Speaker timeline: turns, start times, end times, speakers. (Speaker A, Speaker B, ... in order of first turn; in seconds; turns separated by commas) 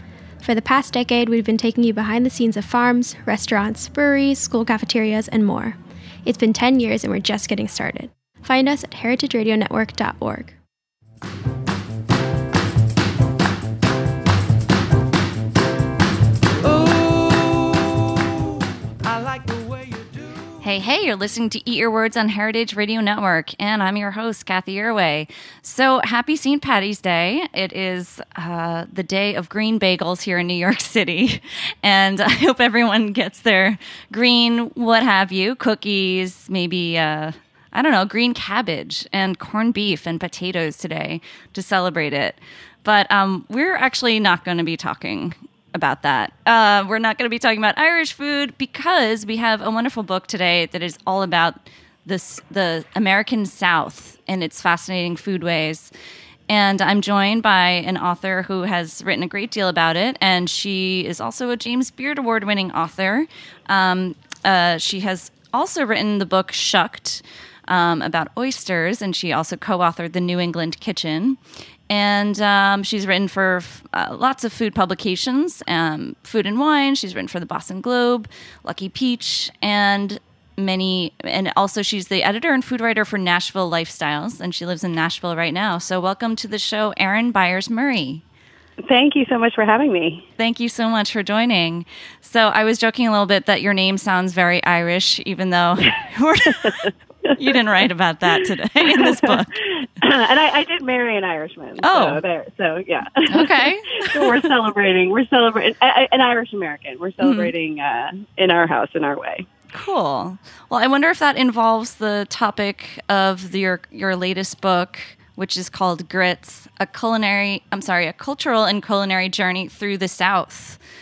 Speaker A: 0.4-10.6, Speaker B: 20.6-55.9, Speaker B: 56.5-88.2, Speaker C: 88.8-90.3, Speaker B: 90.4-99.5, Speaker C: 96.5-97.3, Speaker C: 98.3-109.5, Speaker B: 101.8-102.2, Speaker B: 103.3-104.5, Speaker B: 107.2-107.5, Speaker B: 109.7-120.8